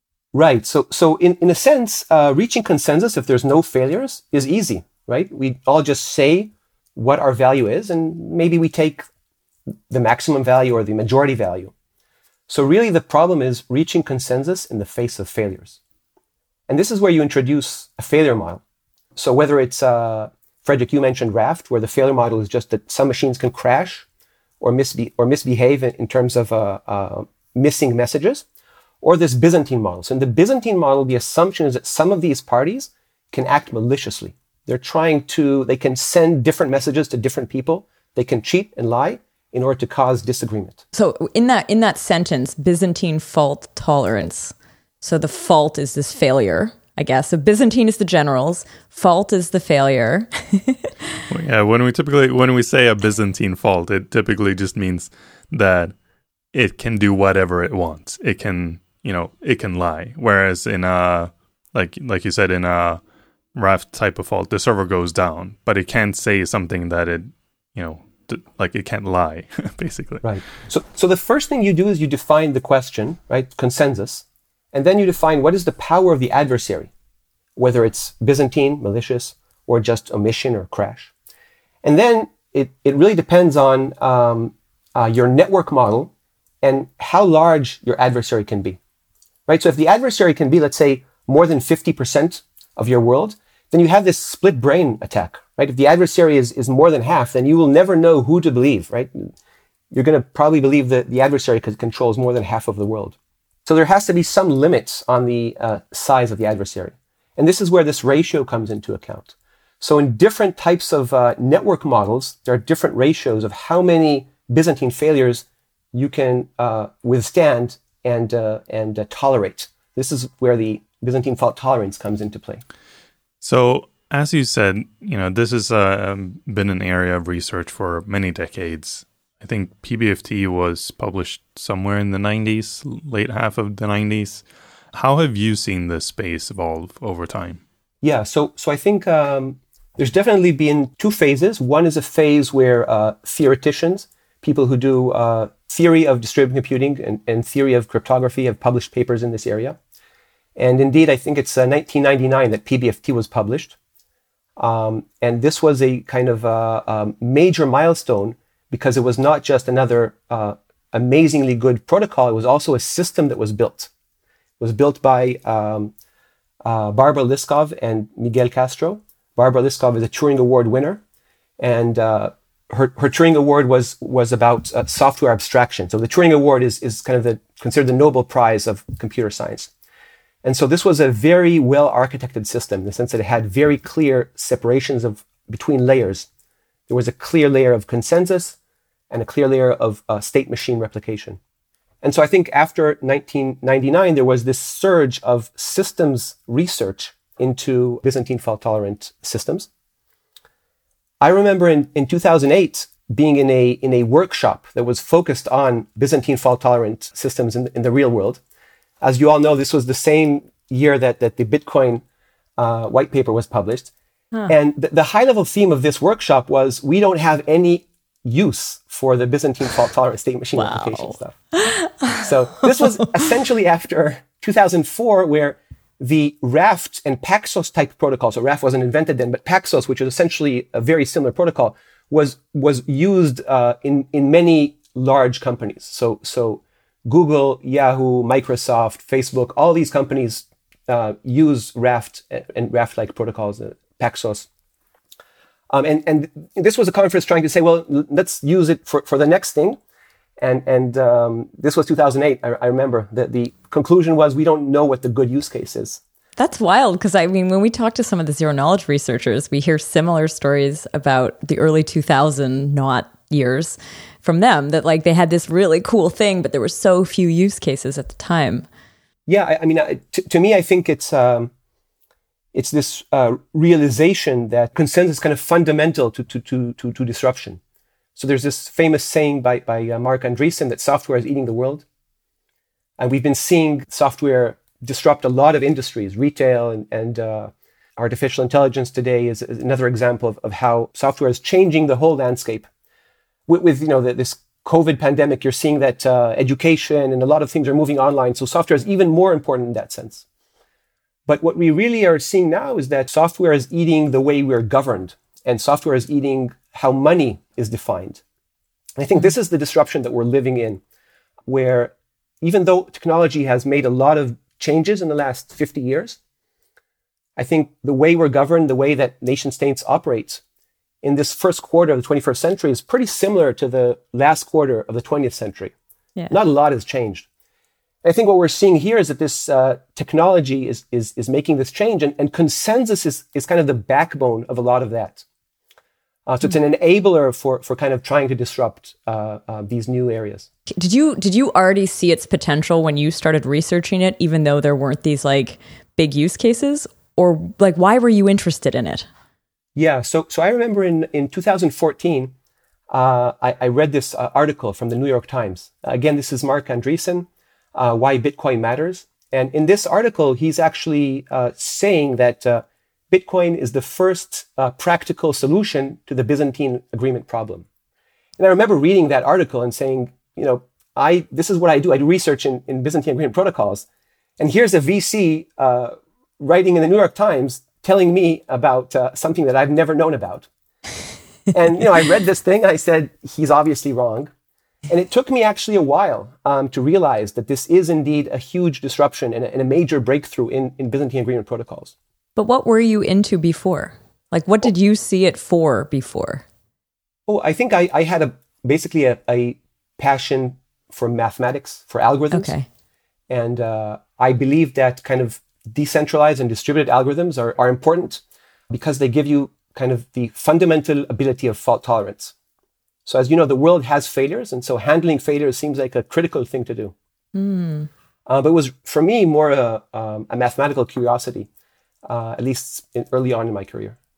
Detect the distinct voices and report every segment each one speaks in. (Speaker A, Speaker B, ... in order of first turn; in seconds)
Speaker A: 0.3-9.1, 9.9-11.7, 12.5-15.8, 16.7-18.6, 19.1-24.1, 24.6-28.4, 29.0-40.8, 70.2-76.9, 77.5-81.1, 81.8-86.1, 86.6-88.8, 89.5-99.3, 99.9-122.6, 138.0-149.8, 150.6-153.8, 154.6-163.9, 164.6-165.9, 166.6-171.0, 171.6-179.7, 180.4-186.3, 186.9-188.6, 189.1-191.4, 192.0-199.7, 201.2-208.4, 209.0-212.0, 212.6-213.9, 214.5-221.3, 222.1-244.5, 245.7-249.8, 250.4-256.0, 269.3-271.5, 272.5-277.6, 278.1-281.8, 283.0-292.7, 293.5-300.2, 301.3-308.2, 309.0-310.8, 311.5-316.2, 317.4-320.4, 321.0-325.7, 326.3-327.2, 328.0-335.2, 336.2-340.5, 349.8-352.3, 352.9-367.6, 368.4-373.8, 374.4-380.5, 381.5-384.3, 384.9-391.9, 397.3-402.5, 403.3-412.3, 413.1-416.9, 418.2-421.5, 422.1-423.9
Speaker B: 40.9-50.9, 220.6-222.2, 256.4-268.6, 340.8-349.1, 392.4-396.4, 402.3-402.6, 417.3-417.9
Speaker C: 51.3-55.9, 56.5-63.0, 63.5-70.2, 123.4-137.6